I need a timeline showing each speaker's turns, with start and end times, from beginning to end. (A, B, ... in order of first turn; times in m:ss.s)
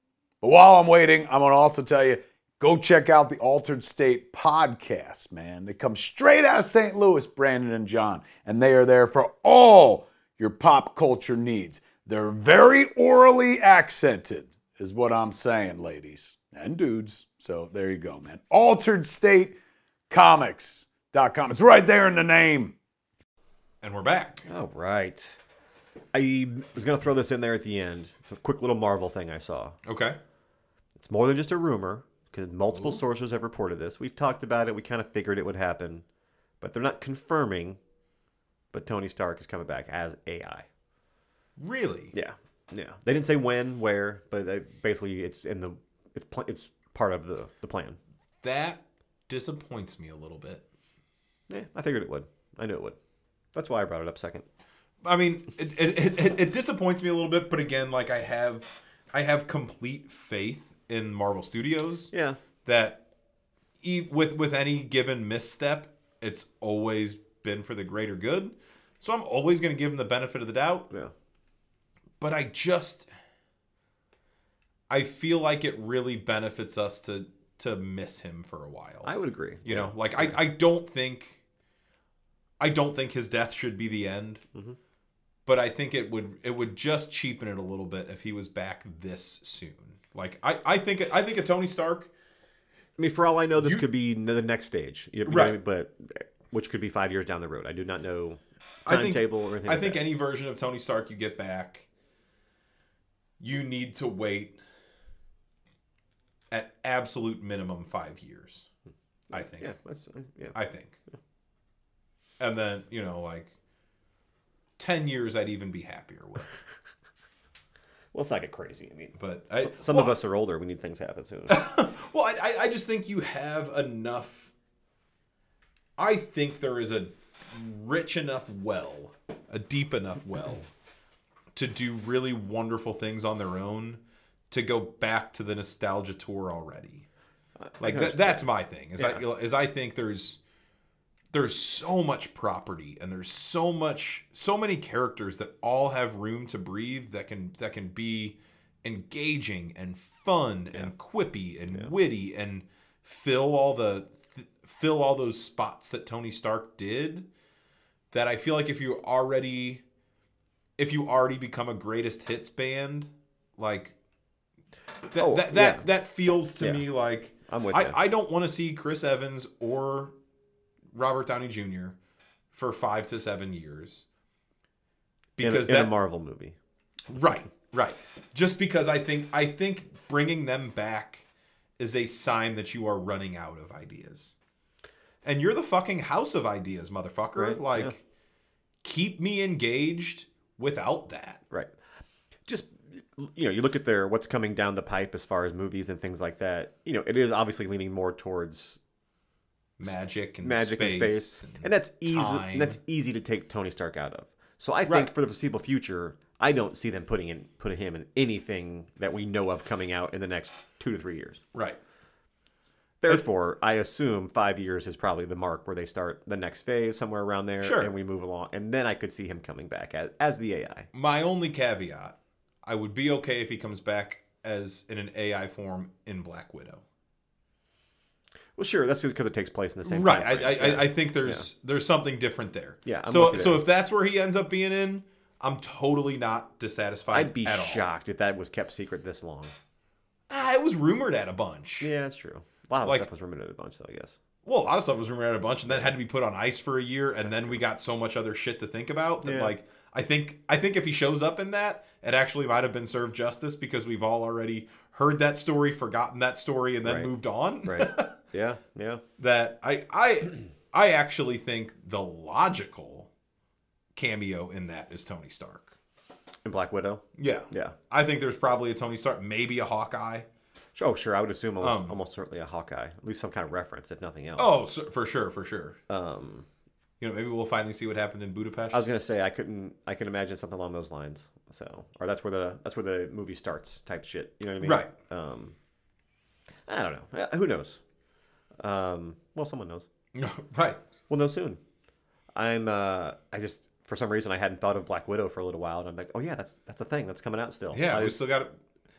0:00.4-0:19.5 A
0:20.1-0:22.7 A
0:23.8-0:24.4 B
0:24.5-0:25.4 C
0:26.1-0:29.8 C
0:29.8-0:30.2 B
0:31.0-0:36.0 C
0:32.7-0:33.0 B
0:36.6-0:37.8 C
0:38.7-0:40.7 C
0:41.6-0:42.1 B
0:42.1-0:48.0 C
0:48.4-0:50.6 B
0:51.5-0:53.0 C
0:53.5-0:54.4 C
0:55.0-1:02.1 B
1:02.1-1:02.4 C
1:02.6-1:03.0 B
1:03.8-1:10.9 B
1:12.2-1:13.1 B
1:14.9-1:19.1 B
1:19.0-1:20.4 C
1:19.6-1:21.4 B
1:22.6-1:24.4 B
1:25.4-1:32.1 B
1:33.0-1:40.0 C
1:33.6-1:33.8 B
1:35.2-1:35.6 B
1:38.8-1:41.9 B
1:43.4-1:44.6 B
1:46.5-1:48.7 B
1:49.3-1:49.7 B
1:49.3-1:50.6 C
1:50.5-1:51.0 B
1:52.4-1:53.5 B
1:54.8-1:56.5 B
1:58.1-2:01.6 C
1:59.2-2:00.2 B
2:01.5-2:04.5 B
2:06.0-2:10.7 B
2:11.5-2:17.0 B
2:17.6-2:18.4 C
2:17.8-2:20.4 B
2:21.3-2:37.3 B
2:38.1-2:39.8 B
2:40.8-2:43.9 B
2:45.1-2:50.1 B
2:45.2-2:45.9 C
2:47.5-2:48.0 C
2:50.9-2:52.0 B
2:52.5-2:54.0 B
2:55.4-2:55.9 B
2:55.4-2:56.6 C
2:57.1-3:01.2 B
3:01.8-3:04.4 B
3:05.2-3:08.0 B
3:07.4-3:07.9 C
3:08.8-3:11.4 B
3:12.5-3:18.8 C
3:19.8-3:22.8 B
3:20.4-3:31.4 C
3:24.8-3:25.1 B
3:33.0-3:40.9 C
3:37.6-3:37.9 B
3:40.9-3:46.8 B
3:48.6-3:51.4 C
3:49.8-3:57.8 B
3:52.8-3:53.6 C
3:57.1-3:59.5 C
4:00.3-4:01.9 B
4:01.8-4:04.2 C
4:04.4-4:18.1 B
4:09.2-4:09.5 C
4:16.8-4:17.1 C
4:17.6-4:19.0 C
4:19.2-4:23.1 B
4:23.9-4:25.7 B
4:26.4-4:27.8 C
4:27.2-4:30.3 B
4:30.8-4:34.6 C
4:31.6-4:32.0 B
4:34.4-4:35.8 B
4:35.9-4:36.4 C
4:37.0-4:38.9 B
4:38.7-4:45.5 C
4:44.6-4:44.9 B
4:46.7-4:47.8 C
4:48.6-4:49.8 C
4:50.1-4:50.8 B
4:51.1-4:51.6 C
4:52.4-4:58.2 C
4:57.7-4:58.6 B